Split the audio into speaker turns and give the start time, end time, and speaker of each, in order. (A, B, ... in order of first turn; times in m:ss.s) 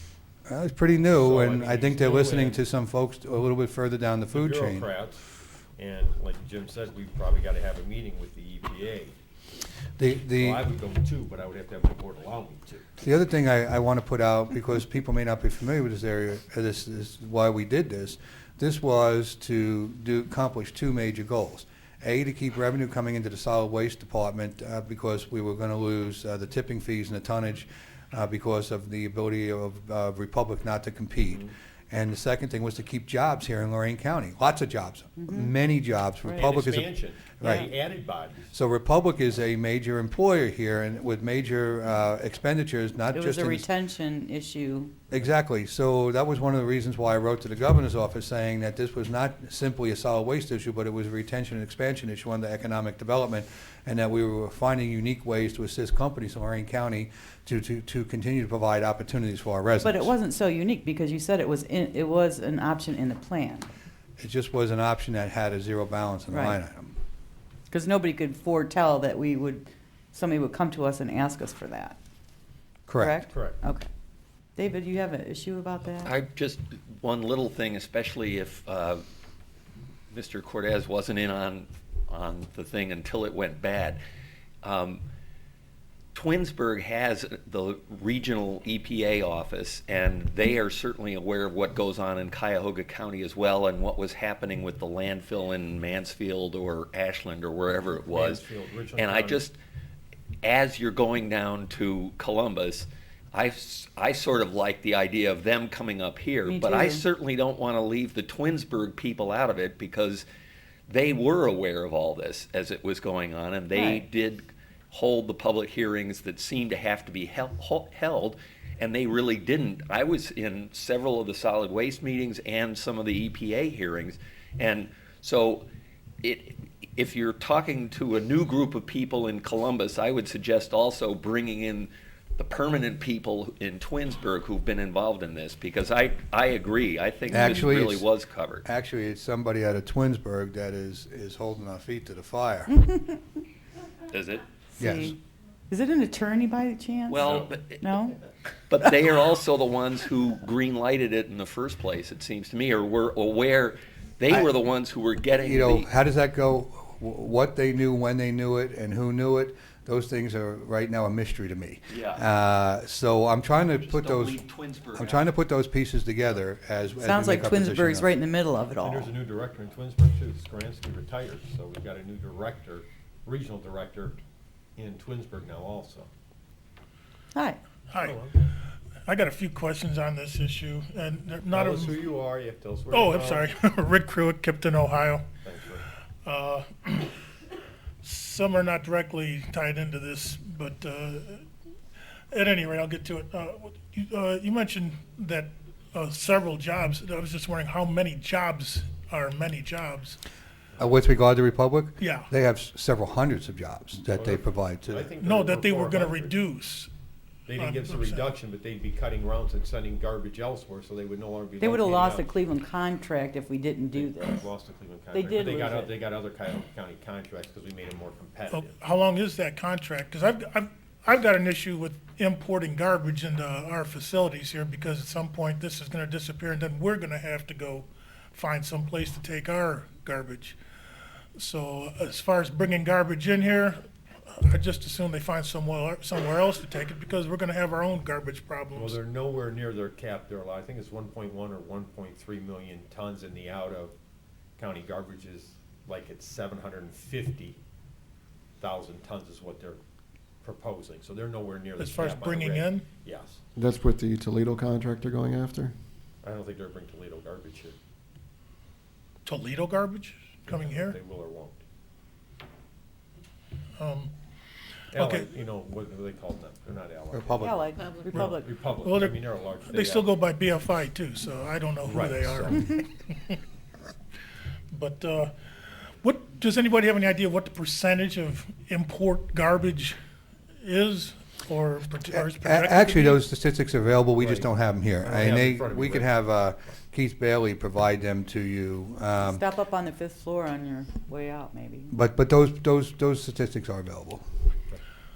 0:00.4-0:04.9 A
0:01.1-0:02.6 B
0:04.3-0:09.2 B
0:10.0-0:10.6 A
0:10.2-0:12.9 B
0:13.0-0:37.7 A
0:35.2-0:35.5 C
0:36.2-0:36.5 C
0:36.4-0:38.5 B
0:38.5-0:43.7 A
0:43.1-0:44.9 C
0:45.1-1:00.1 A
0:59.8-1:03.7 C
1:04.2-1:07.0 A
1:06.3-1:06.6 C
1:07.7-1:12.0 C
1:12.9-1:13.2 A
1:13.0-1:13.9 C
1:13.3-1:13.6 B
1:14.6-1:16.1 C
1:16.0-1:19.0 D
1:20.1-1:24.0 D
1:24.6-1:25.0 D
1:26.1-1:38.4 D
1:38.0-1:39.4 B
1:39.0-1:39.6 D
1:40.4-1:50.2 D
1:46.4-1:47.0 C
1:50.9-2:05.6 D
1:53.7-1:54.0 C
2:06.2-2:18.6 D
2:17.3-2:18.1 A
2:17.4-2:17.6 C
2:18.6-2:22.8 A
2:22.8-2:23.2 C
2:24.1-2:24.4 D
2:24.8-2:25.2 C
2:24.8-2:25.2 A
2:25.7-2:28.2 C
2:27.1-2:27.8 D
2:28.7-2:35.9 D
2:35.4-2:44.4 A
2:41.9-2:42.2 D
2:43.8-2:45.2 D
2:44.9-2:48.1 A
2:47.0-2:49.1 C
2:48.8-2:54.2 B
2:54.8-2:56.1 B
2:57.3-2:57.6 C
2:57.9-2:58.2 E
2:58.0-2:58.4 B
2:59.0-3:02.0 E
3:01.5-3:03.4 B
3:02.9-3:05.2 E
3:05.4-3:05.8 B
3:06.2-3:07.2 E
3:08.0-3:11.4 E
3:12.3-3:20.2 E
3:20.8-3:25.1 A
3:22.0-3:22.3 E
3:24.1-3:26.3 B
3:25.2-3:26.9 E
3:27.4-3:32.3 B
3:27.6-3:28.3 E
3:31.6-3:34.5 C
3:33.9-3:38.7 B
3:35.1-3:35.9 C
3:38.5-3:50.6 E
3:51.4-3:59.0 E
3:58.7-4:03.9 B
4:04.6-4:07.6 B
4:08.6-4:09.8 B
4:10.4-4:13.4 B
4:11.8-4:12.8 E
4:13.6-4:15.7 F
4:16.2-4:17.8 B
4:19.2-4:21.0 E
4:20.4-4:21.6 B
4:23.8-4:24.1 E
4:24.9-4:30.1 B
4:24.9-4:25.3 E
4:27.1-4:27.6 A
4:27.4-4:28.5 C
4:28.8-4:33.4 E
4:31.8-4:32.7 B
4:34.7-4:35.3 E
4:36.0-4:40.0 E
4:40.6-4:43.2 E
4:42.2-4:49.4 A
4:44.2-4:46.1 B
4:49.2-4:51.9 C
4:51.9-4:54.2 A